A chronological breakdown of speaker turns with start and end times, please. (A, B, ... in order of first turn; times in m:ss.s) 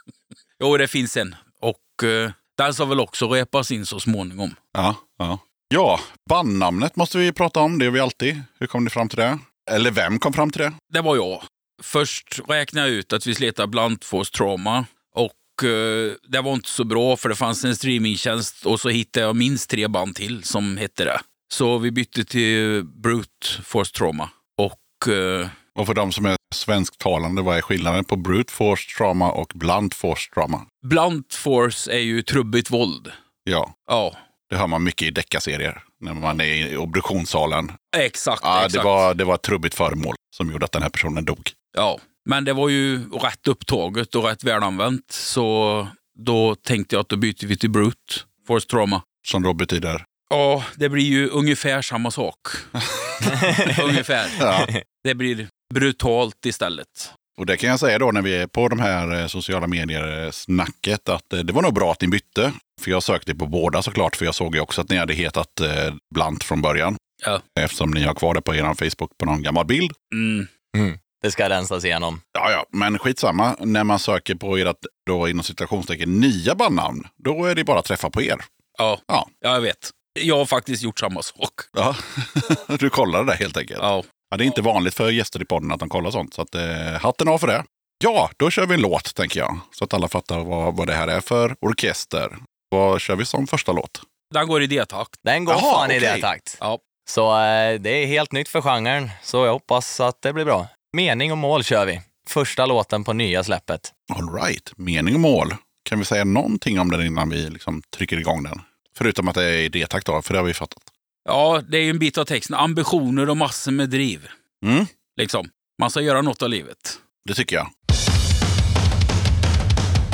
0:00.6-0:04.6 A
0:04.7-0:10.8 B
0:10.9-0:25.5 A
0:25.8-0:30.6 B
0:30.8-0:33.1 A
0:33.5-0:33.7 B
0:33.9-0:34.2 A
0:34.5-0:37.8 B
0:37.9-0:39.1 A
0:38.4-0:41.5 B
0:41.8-0:49.0 A
0:49.2-0:50.0 B
0:50.3-0:54.4 A
0:53.0-0:53.4 B
0:54.4-0:54.7 B
0:55.0-0:57.1 A
0:57.4-1:07.0 B
1:07.6-1:10.0 B
1:10.1-1:10.5 A
1:10.7-1:12.2 C
1:12.3-1:18.5 B
1:18.8-1:21.7 A
1:21.7-1:34.0 B
1:23.8-1:24.1 A
1:34.3-1:35.2 A
1:35.2-1:43.9 C
1:35.5-1:36.3 B
1:44.1-1:50.9 B
1:51.3-1:54.3 A
1:54.6-1:54.9 B
1:55.2-1:57.0 A
1:57.2-1:57.7 B